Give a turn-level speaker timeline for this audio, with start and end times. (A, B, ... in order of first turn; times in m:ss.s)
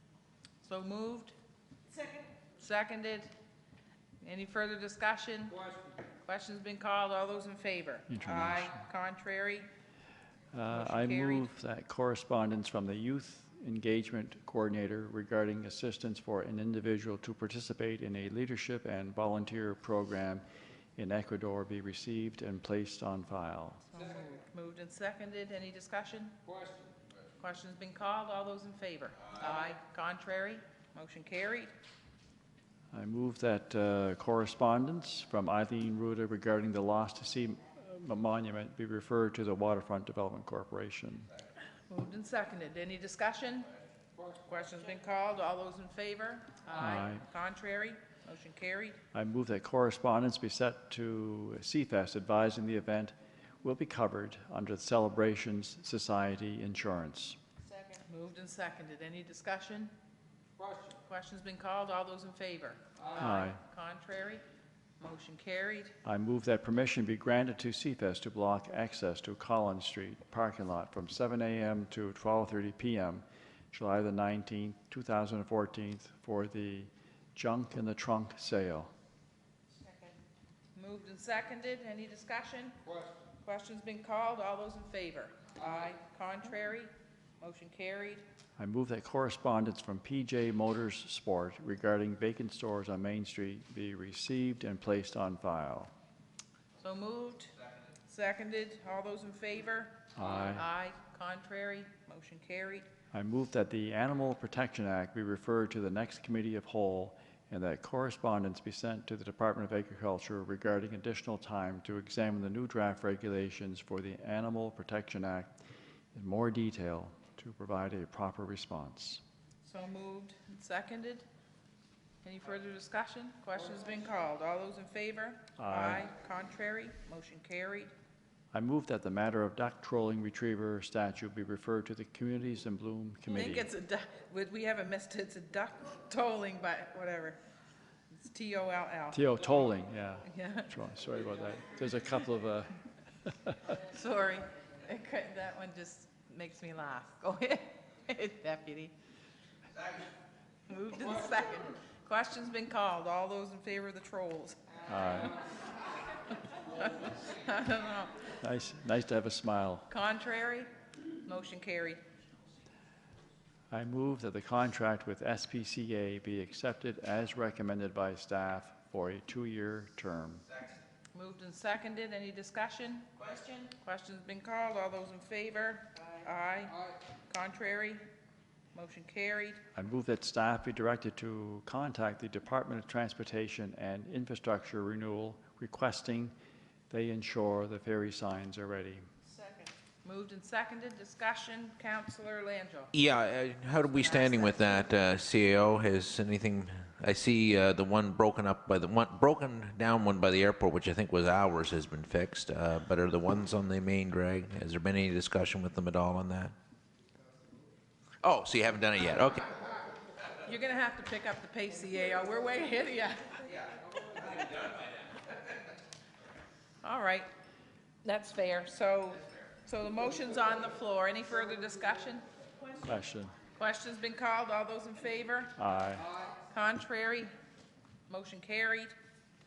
0:00.6-0:01.3 A
0:02.6-0:03.3 A
0:04.2-0:05.6 A
0:06.2-0:09.7 A
0:08.1-0:08.8 B
0:10.5-0:20.4 B
0:10.7-0:11.5 A
0:21.0-0:23.8 B
0:23.9-0:26.3 A
0:27.4-0:31.7 A
0:32.9-0:41.3 B
0:41.9-0:43.7 A
0:44.4-0:49.0 A
0:46.8-0:47.2 B
0:49.1-0:57.4 B
0:57.9-0:59.9 A
1:01.0-1:04.4 A
1:03.2-1:03.6 B
1:05.0-1:05.9 A
1:06.0-1:18.9 B
1:19.8-1:20.1 A
1:20.7-1:22.8 A
1:23.4-1:28.2 A
1:28.6-1:35.9 B
1:36.8-1:37.5 A
1:38.1-1:42.8 A
1:40.2-1:40.6 B
1:43.1-1:55.5 B
1:56.1-1:59.2 B
1:59.6-2:01.2 A
2:02.2-2:07.9 A
2:05.6-2:06.1 B
2:08.5-2:13.7 B
2:13.3-2:17.4 A
2:18.1-2:19.3 A
2:19.1-2:22.7 B
2:20.3-2:20.7 A
2:23.9-2:28.9 A
2:30.7-2:34.6 A
2:34.9-2:35.4 B
2:36.3-2:38.2 A
2:38.4-2:39.9 B
2:39.9-2:40.7 A
2:41.2-2:42.0 A
2:43.7-2:50.4 B
2:51.1-2:58.0 A
2:58.7-2:59.6 A
2:59.7-3:06.3 B
3:06.9-3:09.0 B
3:09.3-3:12.9 A
3:12.9-3:26.5 C
3:14.0-3:14.9 A
3:28.2-3:29.5 C
3:30.4-3:33.5 A
3:36.8-3:37.3 A
3:38.0-3:42.2 A
3:42.8-3:43.3 B
3:43.6-3:45.5 A
3:45.6-3:46.1 B
3:46.5-3:47.3 A
3:48.1-3:48.9 A